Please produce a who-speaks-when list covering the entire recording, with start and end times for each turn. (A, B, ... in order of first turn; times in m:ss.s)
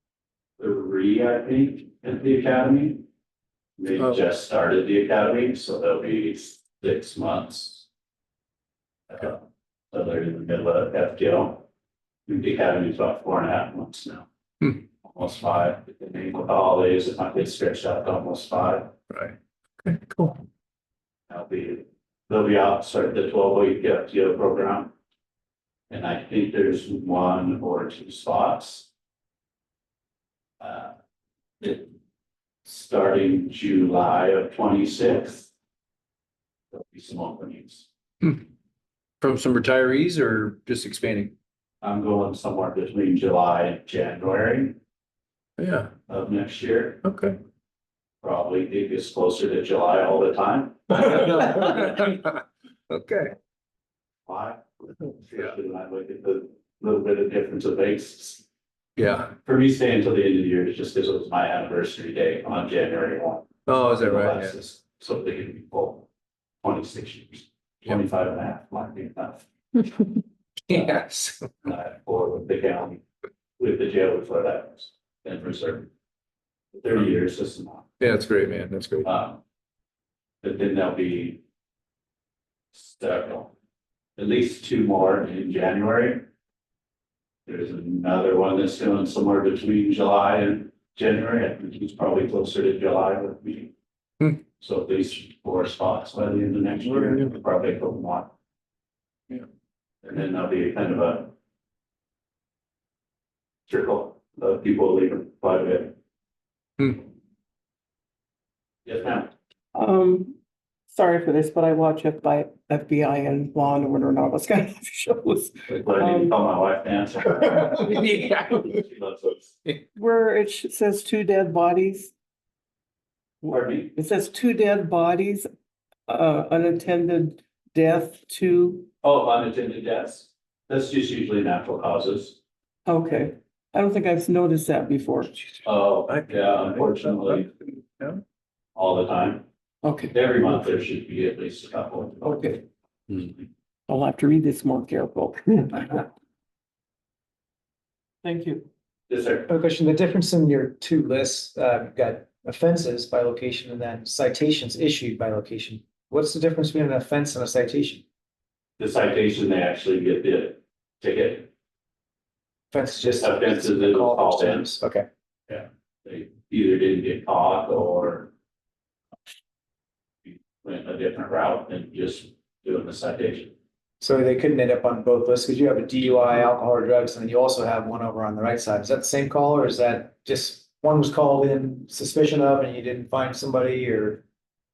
0:00.6-0:03.0 A
0:03.8-0:07.9 A
0:09.1-0:11.6 A
0:12.3-0:14.3 A
0:15.0-0:18.9 A
0:21.3-0:24.9 A
0:25.9-0:28.9 A
0:30.6-0:30.9 A
0:31.6-0:31.9 A
0:32.6-0:35.5 A
0:36.7-0:37.9 A
0:39.2-0:41.3 B
0:41.8-0:44.8 A
0:45.6-0:45.8 B
0:46.1-0:47.0 A
0:47.0-0:47.4 B
0:48.2-0:51.2 A
0:51.0-0:52.2 B
0:52.9-0:53.3 B
0:54.2-0:54.6 A
0:55.2-0:58.4 A
0:59.0-0:59.3 B
0:59.4-1:06.1 A
1:03.7-1:04.5 B
1:06.6-1:09.4 A
1:10.7-1:11.4 B
1:10.7-1:13.0 A
1:13.6-1:15.9 A
1:16.7-1:17.9 A
1:18.0-1:19.0 B
1:19.0-1:19.4 A
1:20.4-1:21.4 A
1:22.7-1:23.5 A
1:24.2-1:26.2 A
1:27.4-1:33.7 A
1:34.6-1:38.3 A
1:40.0-1:41.3 A
1:43.7-1:45.9 A
1:48.8-1:49.3 A
1:49.7-1:50.4 C
1:50.9-1:56.4 C
1:55.7-1:59.6 A
2:00.0-2:02.1 C
2:03.4-2:05.5 C
2:03.5-2:03.9 A
2:06.1-2:08.9 C
2:09.0-2:12.4 A
2:12.8-2:15.4 C
2:15.6-2:17.5 A
2:18.8-2:19.4 A
2:19.8-2:20.2 C
2:20.1-2:23.4 A
2:22.2-2:22.6 C
2:23.9-2:26.0 C
2:28.2-2:28.7 C
2:29.1-2:29.5 A
2:29.5-2:38.0 D
2:38.8-2:41.5 A
2:42.7-2:45.0 D
2:43.1-2:44.8 A
2:45.5-2:48.3 A
2:50.2-2:53.5 A
2:54.0-3:04.2 D